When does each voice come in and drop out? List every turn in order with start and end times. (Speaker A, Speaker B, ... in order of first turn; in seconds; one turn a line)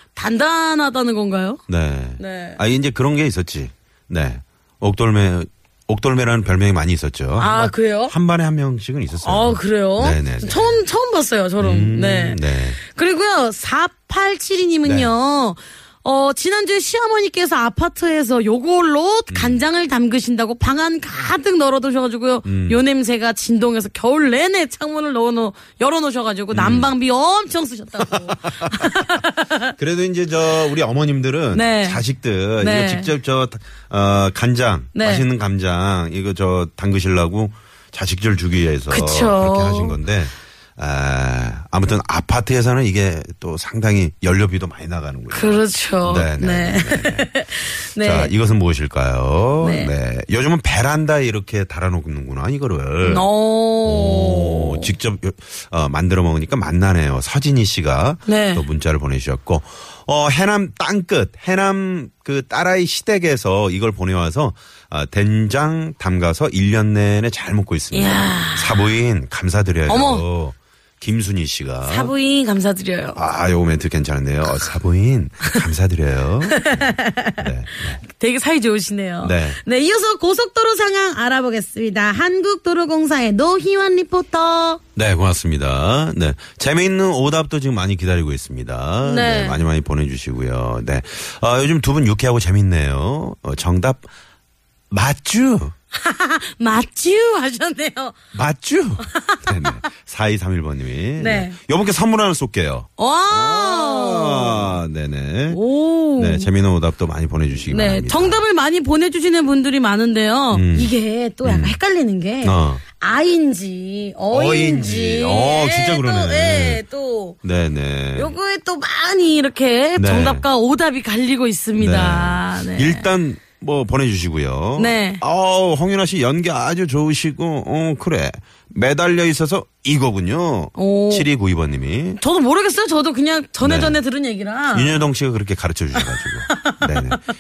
Speaker A: 0.2-1.6
Speaker B: 1.7-10.8
Speaker A: 2.2-2.6
Speaker A: 7.4-8.1
Speaker A: 9.2-29.7
Speaker B: 11.6-12.8
Speaker B: 14.8-15.1
Speaker B: 19.3-19.6
Speaker B: 22.4-22.8
Speaker B: 26.5-26.9
Speaker B: 28.1-29.1
Speaker B: 29.8-47.3
Speaker A: 31.5-32.0
Speaker A: 32.6-33.1
Speaker A: 35.0-35.2
Speaker A: 38.9-40.0
Speaker A: 45.3-48.3
Speaker B: 48.0-53.3
Speaker A: 49.6-49.9
Speaker A: 53.0-54.9
Speaker B: 53.9-72.1
Speaker A: 58.3-58.6
Speaker A: 67.9-68.8
Speaker A: 69.9-70.2
Speaker A: 71.9-73.2
Speaker B: 73.2-76.8
Speaker A: 76.5-77.4
Speaker B: 77.4-78.0
Speaker A: 78.0-84.8
Speaker B: 79.2-79.6
Speaker B: 85.0-94.1
Speaker A: 89.0-89.6
Speaker B: 94.9-95.7
Speaker A: 96.0-98.2
Speaker B: 98.3-105.6
Speaker A: 99.1-99.8
Speaker A: 101.2-101.6
Speaker A: 103.0-104.8
Speaker A: 105.5-106.5
Speaker B: 106.2-108.4
Speaker A: 107.7-117.4
Speaker B: 110.5-110.9
Speaker B: 111.4-111.8
Speaker B: 112.4-112.8
Speaker B: 114.3-116.8
Speaker B: 117.4-118.3
Speaker A: 118.2-123.0
Speaker B: 120.0-120.5
Speaker B: 121.8-132.2
Speaker A: 124.8-125.2
Speaker A: 130.8-131.3
Speaker A: 132.2-135.0
Speaker B: 133.6-134.0
Speaker B: 134.7-137.2
Speaker A: 136.5-137.1